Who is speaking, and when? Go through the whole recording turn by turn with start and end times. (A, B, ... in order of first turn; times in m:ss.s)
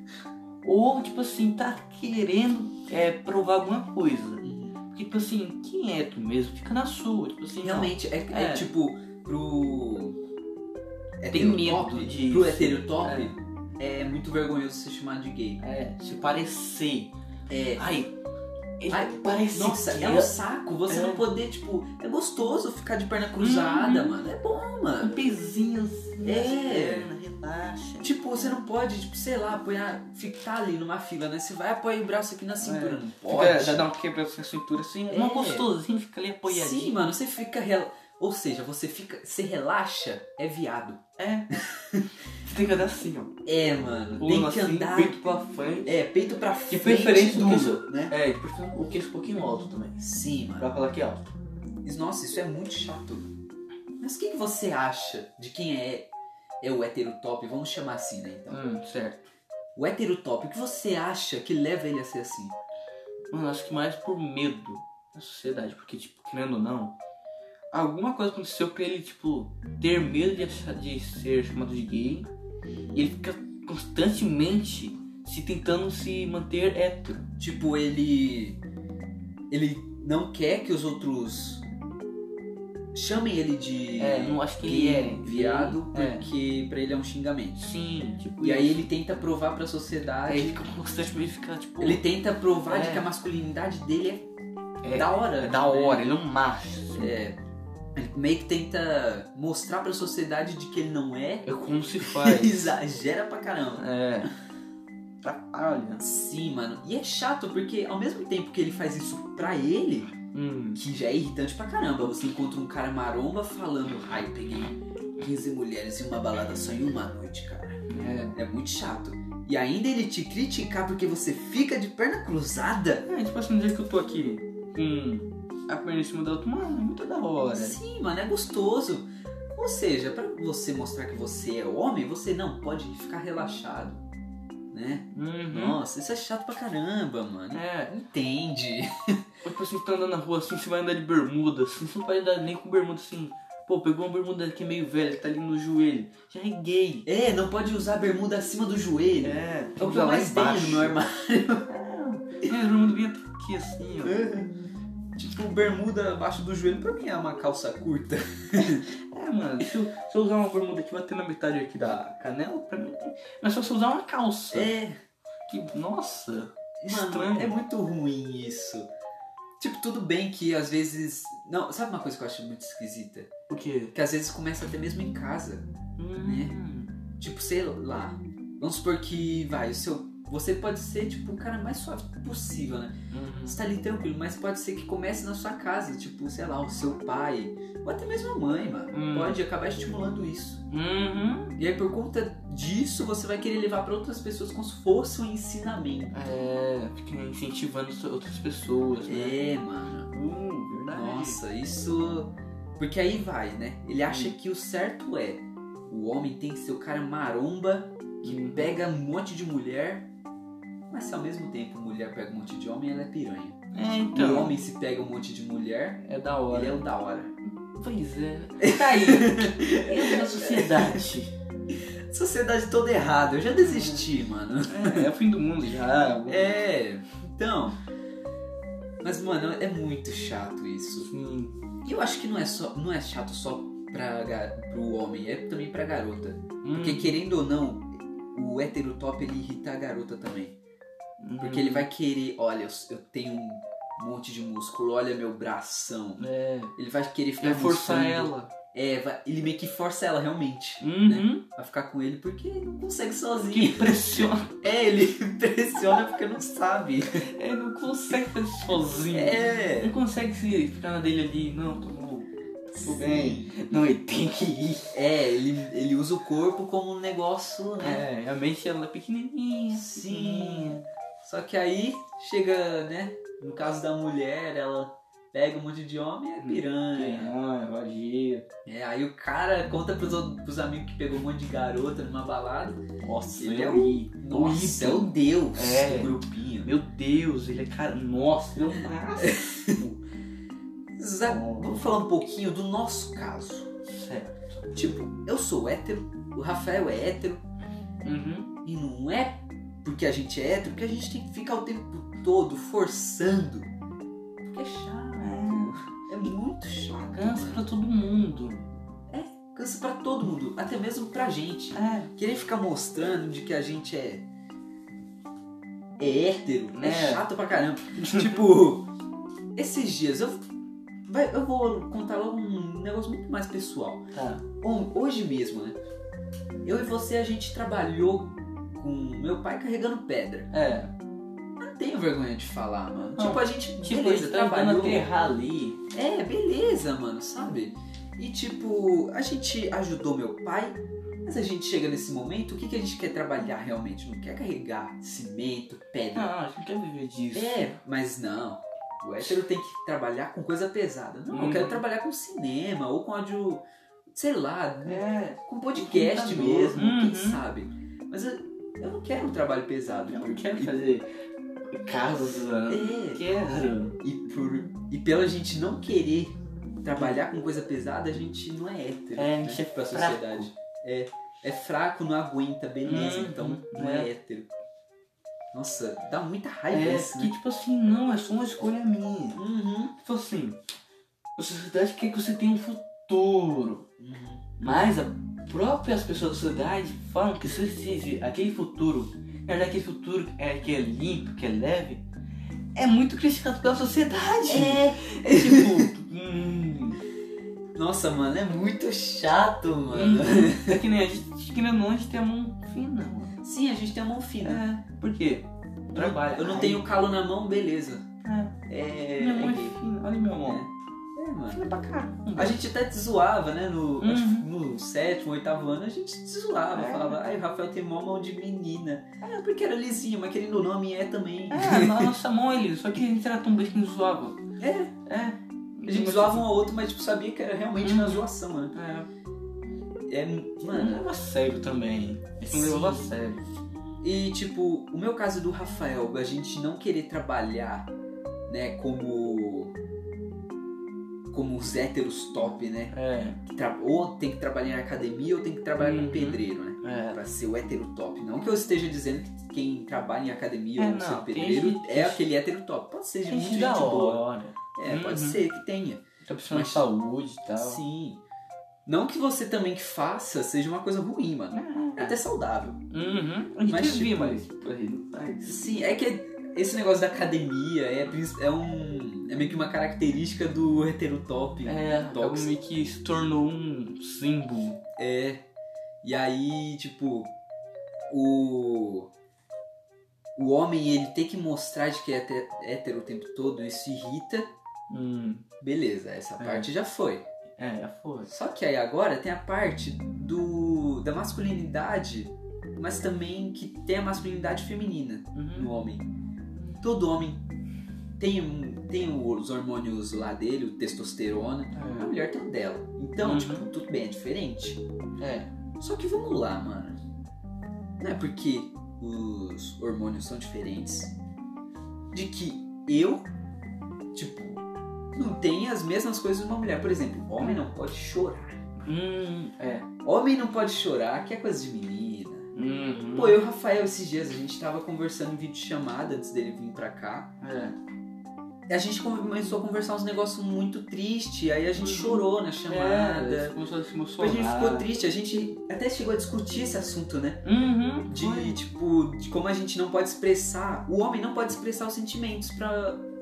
0:00.6-0:08.7 A
0:04.4-0:04.8 B
0:07.6-0:10.2 B
0:11.2-0:15.6 B
0:11.3-0:13.3 A
0:15.6-0:17.1 A
0:17.5-0:18.0 B
0:17.8-0:18.1 A
0:18.8-0:20.3 A
0:18.9-0:25.2 B
0:20.9-0:21.2 A
0:23.4-0:24.2 A
0:25.0-0:28.1 A
0:26.2-0:27.1 B
0:28.0-0:33.9 B
0:32.6-0:37.0 A
0:35.1-0:35.7 B
0:36.4-0:41.0 B
0:41.2-0:41.5 A
0:41.5-0:42.1 B
0:42.4-0:43.3 A
0:43.4-0:45.2 B
0:44.2-0:45.9 A
0:45.9-0:48.1 B
0:46.7-0:50.0 A
0:50.0-0:50.7 B
0:50.6-0:51.3 A
0:51.8-0:53.3 B
0:54.0-0:56.1 B
0:56.6-0:58.6 B
0:58.5-0:59.3 A
0:59.8-1:02.6 B
1:03.3-1:06.9 A
1:07.7-1:12.3 A
1:12.9-1:17.3 A
1:17.4-1:18.6 B
1:19.5-1:21.6 B
1:22.9-1:27.7 B
1:24.0-1:26.3 A
1:27.6-1:28.9 A
1:28.4-1:30.6 B
1:30.2-1:32.0 A
1:31.8-1:34.3 B
1:32.7-1:33.1 A
1:34.8-1:37.2 A
1:34.9-1:36.1 B
1:36.9-1:37.4 B
1:37.9-1:41.4 B
1:41.4-1:42.7 A
1:42.0-1:43.8 B
1:43.8-1:44.3 A
1:45.2-1:46.0 A
1:46.0-1:50.1 B
1:50.3-1:50.8 A
1:50.8-1:57.8 B
1:57.9-1:58.3 A
1:58.3-2:03.1 B
2:03.1-2:07.8 A
2:07.4-2:14.0 B
2:14.7-2:19.2 B
2:15.1-2:15.8 A
2:17.5-2:17.9 A
2:19.4-2:27.1 A
2:27.1-2:31.7 B
2:29.2-2:31.0 A
2:31.7-2:34.2 A
2:34.0-2:34.5 B
2:35.2-2:38.9 B
2:39.1-2:44.7 A
2:44.5-2:44.9 B
2:45.5-2:47.6 A
2:46.8-2:48.9 B
2:49.6-2:53.3 B
2:53.5-2:53.9 A
2:53.9-2:55.6 B
2:56.0-2:56.9 A
2:56.2-2:56.5 B
2:57.2-3:02.9 B
3:03.1-3:03.6 A
3:03.4-3:10.6 B
3:08.9-3:09.4 A
3:10.7-3:11.6 A
3:11.6-3:16.2 B
3:16.1-3:19.4 A
3:19.0-3:20.1 B
3:20.1-3:21.4 A
3:20.9-3:30.1 B
3:24.1-3:24.3 A
3:28.2-3:28.7 A
3:30.9-3:33.6 B
3:33.7-3:34.5 A
3:34.1-3:37.3 B
3:36.0-3:36.8 A
3:37.6-3:41.3 A
3:38.6-3:41.0 B
3:41.7-3:45.1 B
3:43.6-3:44.0 A
3:44.7-3:46.5 A
3:46.2-3:47.8 B
3:49.0-3:51.1 B
3:51.0-3:51.6 A
3:51.8-4:00.6 B
3:56.6-3:57.2 A
4:01.2-4:01.9 A
4:01.4-4:17.2 B
4:06.2-4:06.7 A
4:07.4-4:08.5 A
4:10.8-4:11.4 A
4:13.5-4:14.6 A
4:17.2-4:22.3 A
4:19.1-4:20.0 B
4:22.7-4:23.5 B
4:22.8-4:25.0 A
4:24.9-4:28.0 B
4:27.8-4:30.8 A
4:29.7-4:37.3 B
4:36.4-4:38.5 A
4:38.6-4:46.7 B
4:43.0-4:50.0 A
4:49.2-4:49.8 B
4:51.0-4:53.7 B
4:51.2-4:51.9 A
4:53.9-4:54.6 A
4:54.7-4:57.4 B
4:58.0-4:58.5 A
4:58.6-5:03.7 B
5:04.4-5:07.7 B
5:05.2-5:05.8 A
5:07.0-5:08.6 A
5:09.1-5:14.2 B
5:11.7-5:12.1 A
5:16.0-5:18.9 B
5:16.7-5:17.3 A
5:18.0-5:18.5 A
5:19.6-5:20.4 B
5:21.1-5:24.0 B
5:24.1-5:24.4 A
5:24.6-5:25.8 B
5:26.6-5:30.5 B
5:30.5-5:30.9 A
5:31.6-5:35.1 B
5:33.2-5:35.8 A
5:35.9-5:46.3 B
5:46.1-5:47.8 A
5:47.3-6:00.8 B
5:51.3-5:51.8 A
5:54.8-5:57.4 A
6:00.1-6:01.1 A
6:01.7-6:04.0 A
6:02.7-6:03.2 B
6:04.0-6:14.5 B
6:09.2-6:10.5 A
6:12.8-6:14.1 A
6:15.5-6:17.3 B
6:16.7-6:19.4 A
6:19.4-6:20.0 B
6:20.0-6:20.6 A
6:21.4-6:23.9 A
6:24.0-6:24.4 B
6:24.6-6:32.0 A
6:32.8-6:37.0 A
6:34.5-6:35.9 B
6:37.8-6:40.8 B
6:39.9-6:43.4 A
6:43.4-6:44.6 B
6:44.4-6:46.8 A
6:45.9-6:48.0 B
6:48.2-6:48.5 A
6:48.7-6:49.8 B
6:49.2-6:50.6 A
6:50.4-6:51.7 B
6:51.5-6:52.6 A
6:52.4-7:02.1 B
6:54.0-6:54.5 A
6:56.7-6:57.2 A
7:01.5-7:04.4 A
7:04.6-7:04.9 B
7:05.0-7:06.5 A
7:05.9-7:08.7 B
7:07.8-7:09.1 A
7:10.1-7:11.0 B
7:10.7-7:13.4 A
7:12.4-7:13.1 B
7:14.0-7:17.9 B
7:18.5-7:19.8 B
7:21.3-7:22.9 B
7:22.9-7:23.4 A
7:23.5-7:34.2 B
7:25.8-7:27.2 A
7:30.8-7:32.2 A
7:33.3-7:35.4 A
7:34.8-7:36.9 B
7:36.2-7:37.8 A
7:37.6-7:38.2 B
7:38.9-7:42.8 B
7:41.5-7:42.2 A
7:42.9-7:45.6 A
7:43.6-7:44.4 B
7:45.5-7:52.5 B
7:51.6-7:54.8 A
7:55.0-7:55.4 B
7:56.0-7:57.3 B
7:58.1-7:59.1 B
8:00.4-8:04.5 B
8:04.9-8:05.4 A
8:05.6-8:07.2 B
8:06.4-8:06.7 A
8:07.6-8:08.3 A
8:08.3-8:16.1 B
8:15.3-8:15.7 A
8:16.8-8:17.4 B
8:18.2-8:24.8 B
8:21.7-8:22.1 A
8:23.2-8:23.7 A
8:25.2-8:25.5 A
8:25.8-8:27.0 B
8:28.0-8:31.1 B
8:32.1-8:33.3 B
8:34.1-8:34.6 B
8:35.1-8:38.6 B
8:38.8-8:39.9 A
8:40.0-8:42.5 B
8:42.5-8:43.4 A
8:43.1-8:47.3 B
8:47.4-8:47.8 A
8:48.7-8:53.6 B
8:51.8-8:54.9 A
8:54.2-8:57.4 B
8:57.4-8:58.6 A
8:58.1-9:03.0 B